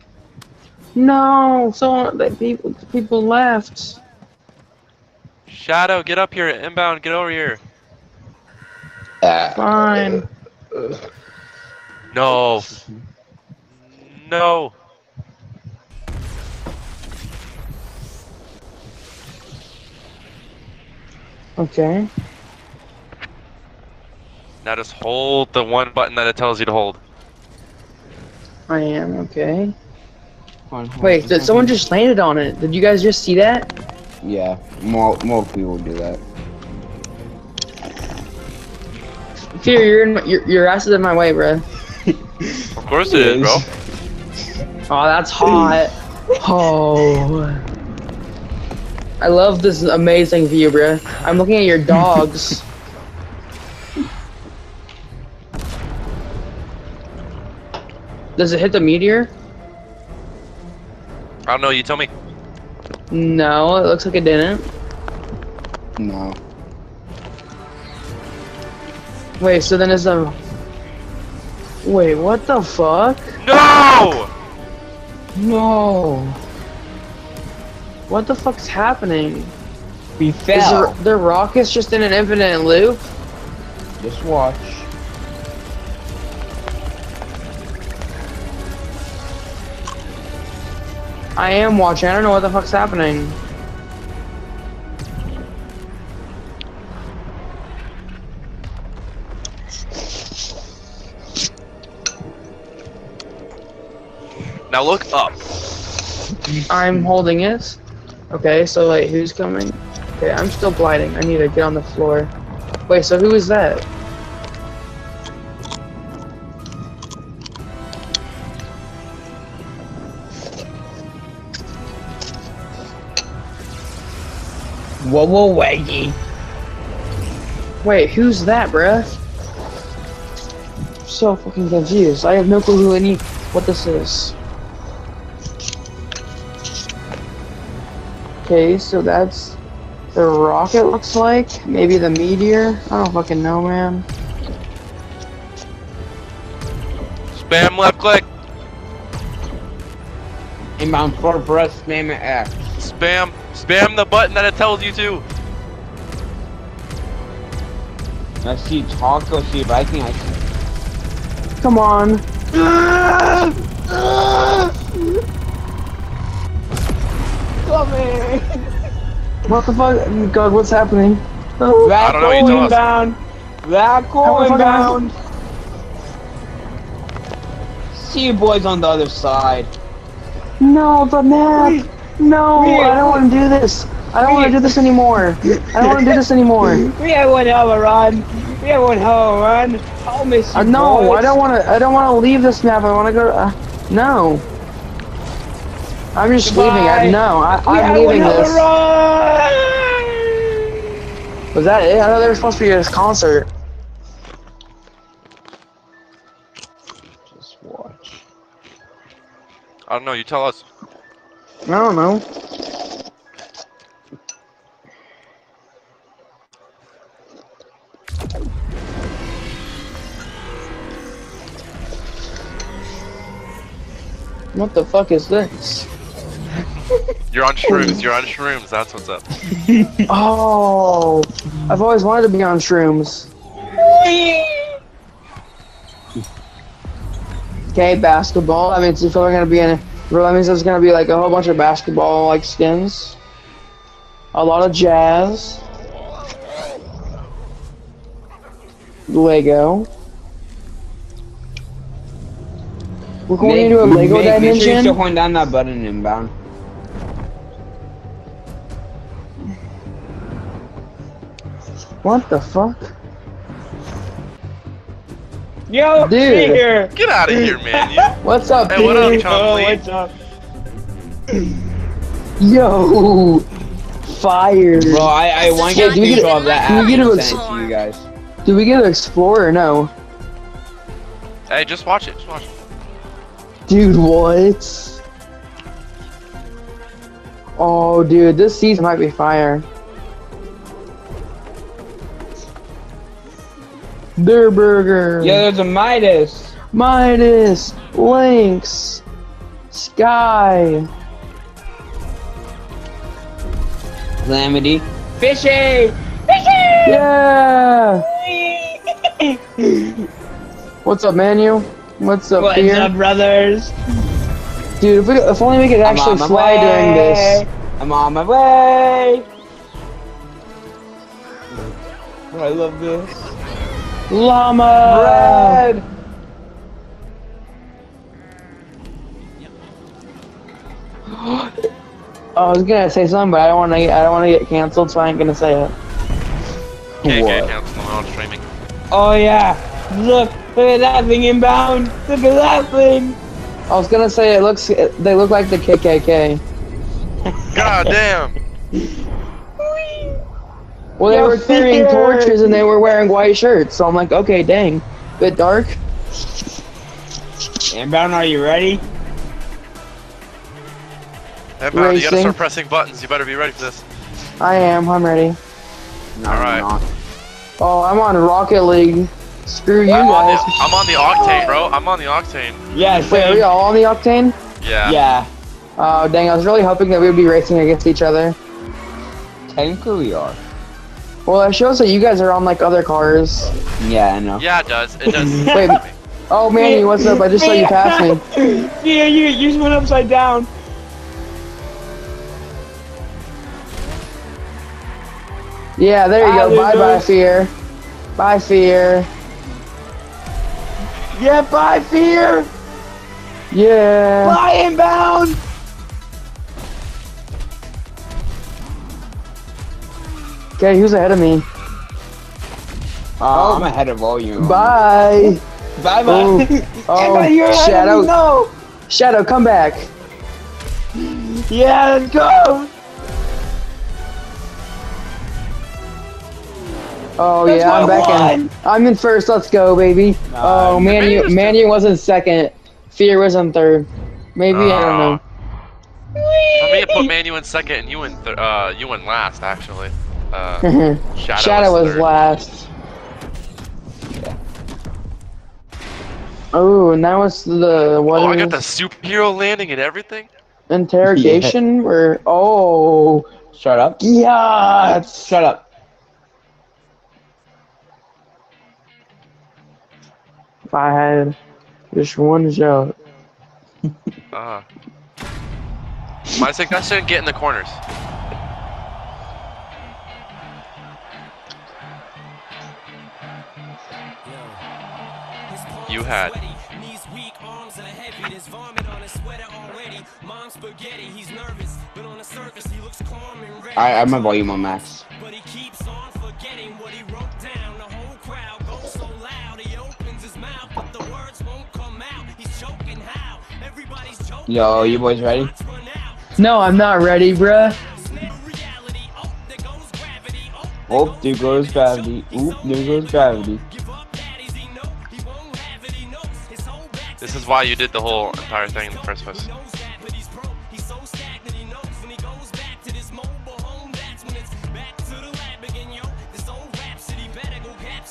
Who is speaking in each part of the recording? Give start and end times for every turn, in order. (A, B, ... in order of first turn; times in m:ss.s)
0:01.0-0:04.0 A
0:05.5-0:07.6 B
0:09.2-0:10.2 C
0:09.5-0:10.2 A
0:12.1-0:12.7 B
0:13.8-0:14.7 B
0:21.6-0:22.1 A
0:24.6-0:27.0 B
0:28.7-0:29.7 A
0:30.7-0:31.8 C
0:31.0-0:33.7 A
0:34.2-0:36.2 C
0:39.6-0:41.6 A
0:42.4-0:43.7 C
0:42.8-0:43.6 B
0:44.9-0:47.6 A
0:45.5-0:45.8 C
0:49.2-0:52.6 A
0:58.4-0:59.3 A
1:01.5-1:02.1 B
1:03.1-1:04.7 A
1:06.0-1:06.4 C
1:09.4-1:10.4 A
1:11.8-1:13.4 A
1:13.4-1:14.3 B
1:15.4-1:16.4 C
1:18.1-1:19.5 A
1:20.2-1:21.0 C
1:20.5-1:23.0 A
1:24.0-1:24.9 C
1:31.4-1:33.4 A
1:44.7-1:45.3 B
1:46.7-1:47.8 A
1:48.3-1:52.3 A
1:52.9-1:53.9 A
2:05.0-2:06.2 C
2:07.8-2:09.2 A
2:11.1-2:14.4 A
2:18.4-2:19.6 A
2:20.1-2:24.0 A
2:27.3-2:28.3 B
2:30.8-2:32.6 C
2:32.8-2:35.2 B
2:38.4-2:40.4 C
2:41.6-2:42.2 A
2:42.5-2:45.0 C
2:47.6-2:48.7 C
2:49.5-2:51.9 A
2:51.8-2:55.1 C
2:52.0-2:52.8 B
2:54.2-2:55.0 A
2:57.9-2:59.7 C
3:00.6-3:06.9 A
3:01.6-3:01.9 C
3:02.6-3:03.2 C
3:04.2-3:04.8 C
3:05.4-3:11.4 C
3:10.5-3:14.4 A
3:16.2-3:18.7 A
3:16.4-3:20.6 C
3:21.5-3:23.5 A
3:27.3-3:28.2 C
3:29.9-3:30.6 B
3:31.7-3:32.2 A
3:44.5-3:45.9 A
3:47.3-3:49.3 B
3:47.7-3:48.0 C
3:49.5-3:50.0 C
3:50.1-3:53.3 A
3:53.8-3:54.8 C
3:57.7-4:03.2 A
4:04.3-4:05.6 A
4:09.1-4:09.9 A
4:13.3-4:15.0 A
4:13.4-4:16.3 C
4:22.0-4:22.9 A
4:25.7-4:28.1 C
4:26.0-4:26.7 A
4:27.0-4:29.8 B
4:28.2-4:29.2 A
4:28.7-4:30.1 C
4:32.4-4:33.5 A
4:34.1-4:35.1 A
4:34.7-4:38.1 C
4:35.7-4:37.5 A
4:38.4-4:39.9 A
4:41.5-4:42.5 B
4:43.7-4:45.0 A
4:47.6-4:49.7 A
4:54.2-4:55.5 A
4:55.2-4:56.6 C
4:56.7-4:59.0 A
4:59.7-5:00.9 A
5:04.2-5:07.1 C
5:06.8-5:08.1 A
5:08.1-5:10.1 C
5:10.8-5:12.9 A
5:12.4-5:13.8 C
5:14.8-5:17.4 A
5:15.8-5:19.3 C
5:22.3-5:23.2 C
5:24.1-5:25.6 A
5:24.8-5:25.9 C
5:31.1-5:31.6 C
5:32.4-5:35.8 A
5:37.0-5:37.5 C
5:37.0-5:38.4 B
5:38.9-5:43.2 C
5:43.7-5:46.4 A
5:47.3-5:47.9 C
5:47.5-5:48.4 B
5:49.6-5:50.2 C
5:51.0-5:55.8 A
5:51.1-5:52.6 C
5:57.7-5:58.8 C
6:01.6-6:03.8 B
6:01.7-6:02.4 A
6:04.4-6:05.4 A
6:06.2-6:06.9 C
6:06.3-6:06.7 B
6:07.6-6:10.8 A
6:09.9-6:12.6 B
6:11.0-6:11.6 C
6:12.7-6:13.5 C
6:13.1-6:14.4 A
6:14.6-6:15.0 B
6:14.8-6:15.3 C
6:15.8-6:18.4 A
6:19.5-6:20.4 C
6:21.3-6:23.5 A
6:23.8-6:24.4 C
6:24.4-6:25.9 B
6:25.1-6:25.7 C
6:25.5-6:28.2 A
6:26.6-6:30.5 C
6:35.8-6:37.5 A
6:36.2-6:37.1 C
6:38.2-6:39.1 A
6:41.1-6:42.5 C
6:43.5-6:44.4 A
6:44.2-6:45.4 C
6:50.6-6:51.5 A
6:53.2-6:58.5 C
6:53.3-6:53.7 A
6:54.4-6:55.4 A
6:56.1-6:58.1 A
6:58.9-6:59.9 A
7:01.0-7:02.7 C
7:07.2-7:15.2 A
7:07.4-7:08.5 C
7:10.3-7:11.1 C
7:10.8-7:11.6 B
7:14.5-7:15.2 B
7:16.2-7:17.1 C
7:16.6-7:22.1 B
7:20.6-7:22.7 A
7:26.5-7:28.6 A
7:27.7-7:30.3 B
7:30.7-7:33.3 A
7:31.1-7:31.6 C
7:33.5-7:34.0 C
7:34.0-7:35.3 A
7:35.2-7:35.6 C
7:40.7-7:41.4 A
7:41.9-7:43.0 A
7:44.3-7:44.6 B
7:46.3-7:47.8 B
7:55.9-7:56.4 B
7:59.5-8:00.2 D
8:01.6-8:02.9 D
8:03.8-8:05.0 C
8:06.6-8:14.4 D
8:14.5-8:15.5 C
8:16.4-8:17.8 A
8:20.9-8:23.6 C
8:27.2-8:29.5 B
8:35.9-8:36.3 D